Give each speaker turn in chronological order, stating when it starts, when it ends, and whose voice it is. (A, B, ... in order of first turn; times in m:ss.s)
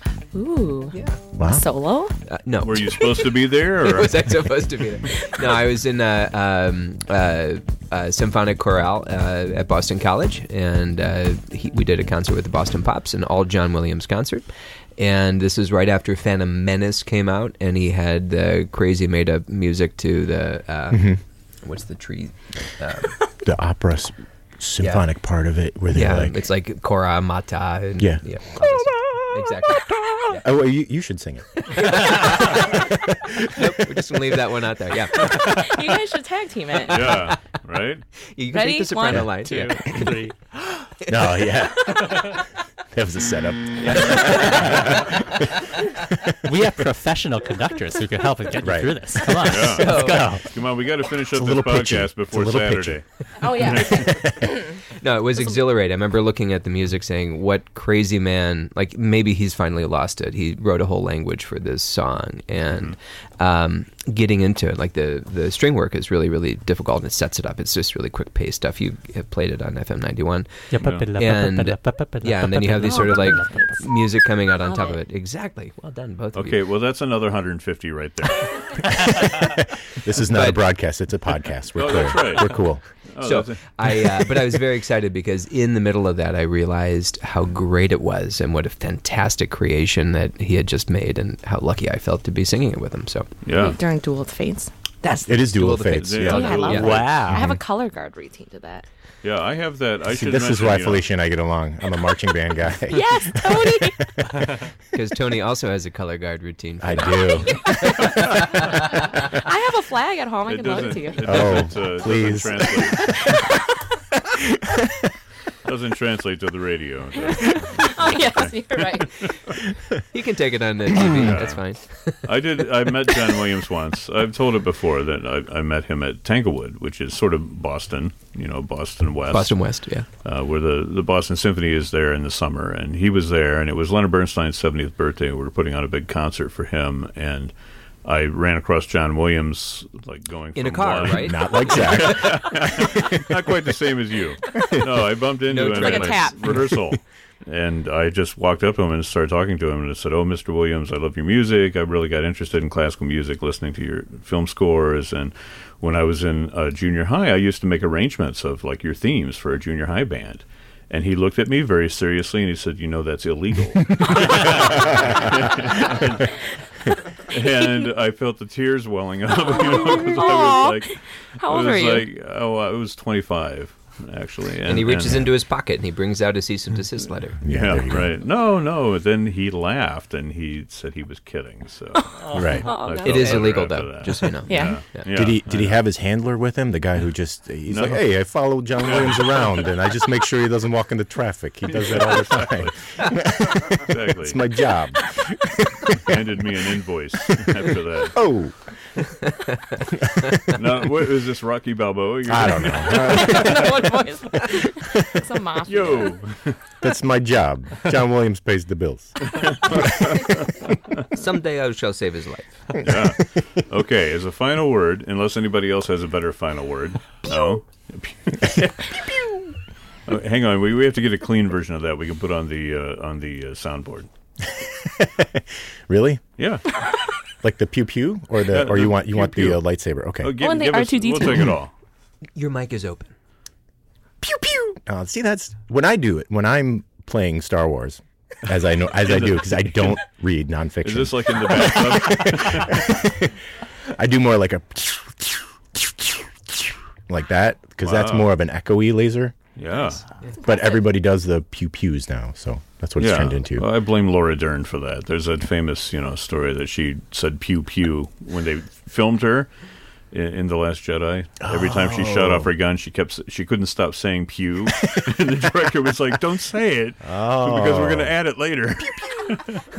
0:00.3-0:02.1 A
0:00.9-0:01.2 B
0:01.4-0:01.6 C
0:02.3-0:23.2 B
0:02.6-0:04.4 D
0:20.9-0:21.2 C
0:23.4-0:26.4 C
0:24.8-0:25.0 B
0:25.9-0:30.4 B
0:28.0-0:34.0 C
0:31.7-0:32.9 B
0:33.4-0:35.8 B
0:35.2-0:37.2 A
0:36.9-0:37.4 B
0:36.9-0:38.0 D
0:38.3-0:40.2 B
0:38.5-0:39.6 A
0:39.4-0:40.3 E
0:40.8-0:41.5 B
0:41.1-0:42.4 C
0:42.1-0:42.3 E
0:42.9-0:46.4 C
0:43.8-0:45.1 B
0:46.4-0:50.5 E
0:48.6-0:49.0 C
0:49.4-0:54.3 D
0:49.6-0:50.4 B
0:51.3-0:54.5 C
0:53.4-0:54.8 A
0:55.0-1:16.6 B
1:02.7-1:03.0 D
1:10.7-1:13.7 E
1:12.8-1:13.8 A
1:14.6-1:15.0 A
1:16.3-1:18.9 D
1:18.8-1:22.8 C
1:20.2-1:20.6 B
1:21.7-1:24.5 D
1:23.2-1:33.3 B
1:33.4-1:33.8 D
1:33.5-1:34.7 A
1:35.0-1:37.2 B
1:35.2-1:36.7 C
1:36.0-1:37.2 D
1:36.3-1:38.8 A
1:36.7-1:37.5 E
1:37.3-1:37.6 C
1:39.2-1:41.0 D
1:40.1-1:44.4 C
1:42.9-1:44.4 A
1:44.9-1:49.2 B
1:46.8-1:48.2 C
1:47.5-1:48.1 A
1:49.2-1:51.6 A
1:50.5-1:53.4 D
1:51.2-1:53.4 C
1:54.1-1:55.1 C
1:55.6-1:59.5 D
1:57.3-1:59.2 A
2:00.1-2:02.5 B
2:00.9-2:01.2 C
2:01.0-2:01.6 D
2:02.2-2:17.5 D
2:09.3-2:10.1 B
2:18.0-2:46.4 D
2:20.5-2:22.4 B
2:21.1-2:23.3 C
2:25.5-2:26.6 B
2:25.7-2:26.6 A
2:44.4-2:45.3 C
2:47.3-2:55.3 D
2:49.3-2:52.0 A
2:54.6-2:57.4 B
2:57.4-2:58.1 C
2:57.5-3:05.8 D
3:02.1-3:03.6 A
3:02.3-3:02.7 E
3:02.3-3:02.7 C
3:03.0-3:05.1 B
3:04.5-3:04.8 A
3:05.1-3:16.1 C
3:07.7-3:08.0 D
3:08.8-3:09.6 D
3:11.8-3:13.2 D
3:13.7-3:14.4 D
3:15.9-3:18.2 D
3:18.1-3:18.6 C
3:19.3-3:19.8 B
3:19.9-3:20.6 C
3:20.5-3:23.4 D
3:22.3-3:23.9 C
3:22.8-3:26.1 A
3:25.7-3:26.6 D
3:26.8-3:30.2 C
3:29.3-3:30.7 D
3:31.1-3:32.9 B
3:32.8-3:39.2 D
3:40.1-3:44.1 D
3:44.5-3:46.2 C
3:46.4-3:46.7 D
3:47.4-3:50.4 C
3:48.5-3:49.6 D
3:50.2-3:51.7 D
3:50.4-3:51.5 A
3:52.3-3:53.1 B
3:54.2-4:03.4 C
3:59.0-4:00.0 D
4:00.8-4:02.9 D
4:03.9-4:09.3 C
4:07.8-4:08.3 D
4:09.6-4:10.0 D
4:10.4-4:10.8 A
4:10.4-4:13.6 C
4:13.0-4:19.5 D
4:20.1-4:29.6 D
4:21.4-4:22.5 C
4:27.0-4:28.1 C